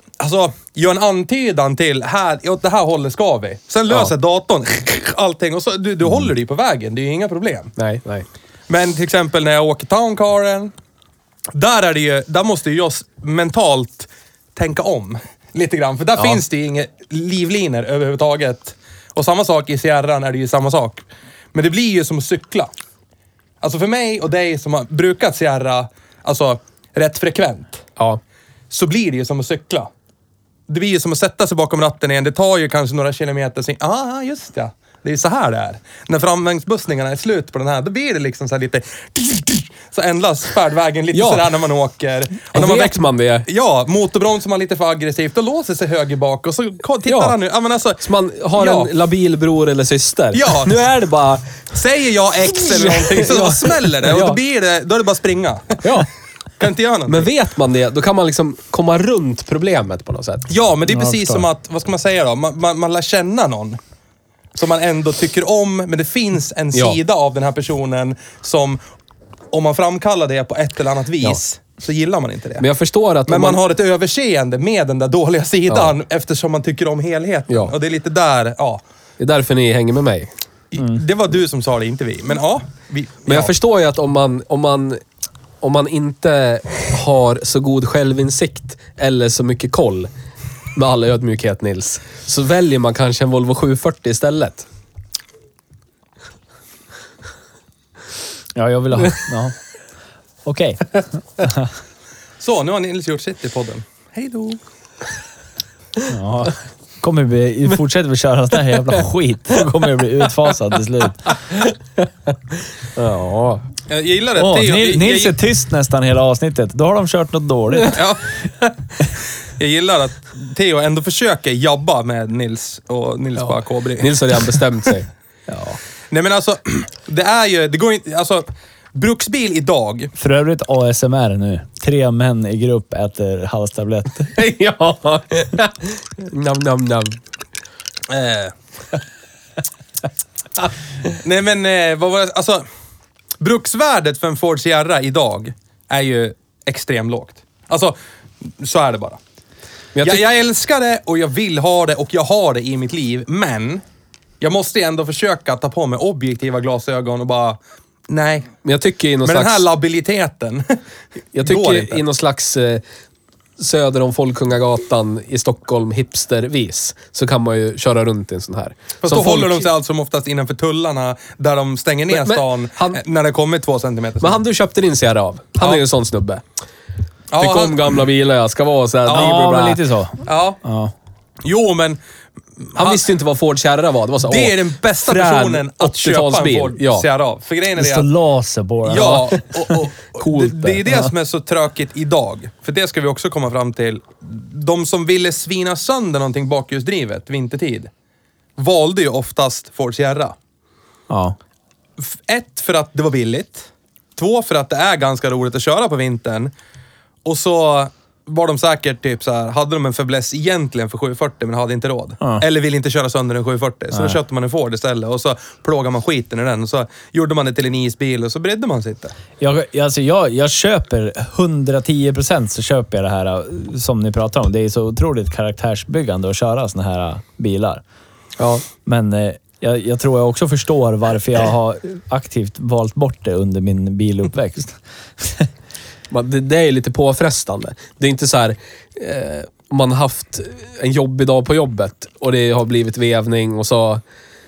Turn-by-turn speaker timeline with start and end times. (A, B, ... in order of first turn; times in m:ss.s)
0:00.2-0:07.7 A
0:07.8-0:08.3 B
0:08.7-0:10.7 A
0:11.5-0:22.7 A
0:23.6-0:27.9 A
0:28.7-0:29.9 A
0:30.7-0:48.0 A
0:41.1-0:41.5 B
0:42.5-0:43.5 B
0:47.1-0:47.4 B
0:48.0-0:51.6 B
0:48.6-0:48.9 A
0:50.3-0:50.8 A
0:51.7-0:56.0 A
0:52.5-0:54.4 B
0:56.6-0:57.3 A
0:57.1-1:00.5 B
1:00.5-1:03.8 A
1:00.9-1:01.4 C
1:04.6-1:08.8 A
1:06.7-1:07.0 B
1:09.5-1:12.7 A
1:12.6-1:13.6 B
1:13.3-1:18.8 A
1:15.7-1:16.0 B
1:17.5-1:17.8 B
1:19.2-1:20.3 B
1:20.7-1:23.5 A
1:23.3-1:25.0 B
1:25.6-1:30.1 B
1:30.8-1:34.7 B
1:38.6-1:39.6 C
1:40.4-1:41.7 C
1:42.4-1:44.6 A
1:46.1-1:51.4 C
1:53.0-1:53.6 B
1:53.9-1:55.4 A
1:54.4-1:58.0 C
1:57.9-1:58.2 A
1:59.6-2:04.6 A
2:03.4-2:05.1 B
2:05.5-2:05.8 C
2:06.1-2:10.1 A
2:10.2-2:14.4 C
2:14.4-2:17.2 B
2:18.1-2:18.5 A
2:21.1-2:22.6 A
2:23.4-2:29.2 A
2:30.0-2:30.2 B
2:30.0-2:33.8 A
2:34.4-2:38.6 A
2:38.6-2:39.7 B
2:39.2-2:40.8 A
2:41.3-2:42.8 B
2:41.4-2:42.0 A
2:43.6-2:49.7 B
2:49.0-2:54.4 A
2:52.1-2:53.0 B
2:54.2-2:56.4 B
2:57.3-2:57.9 A
2:57.4-2:59.8 B
2:59.1-2:59.4 A
2:59.1-3:00.9 C
3:00.2-3:00.6 A
3:01.4-3:02.0 A
3:02.6-3:03.1 A
3:02.8-3:07.1 B
3:04.3-3:08.1 A
3:07.8-3:09.4 C
3:08.9-3:17.9 A
3:08.9-3:10.8 B
3:18.6-3:20.4 A
3:21.1-3:21.4 C
3:22.0-3:26.5 A
3:27.2-3:39.2 A
3:33.9-3:34.2 C
3:39.4-3:47.8 C
3:48.4-3:48.6 B
3:48.8-3:55.5 C
3:56.1-4:04.0 B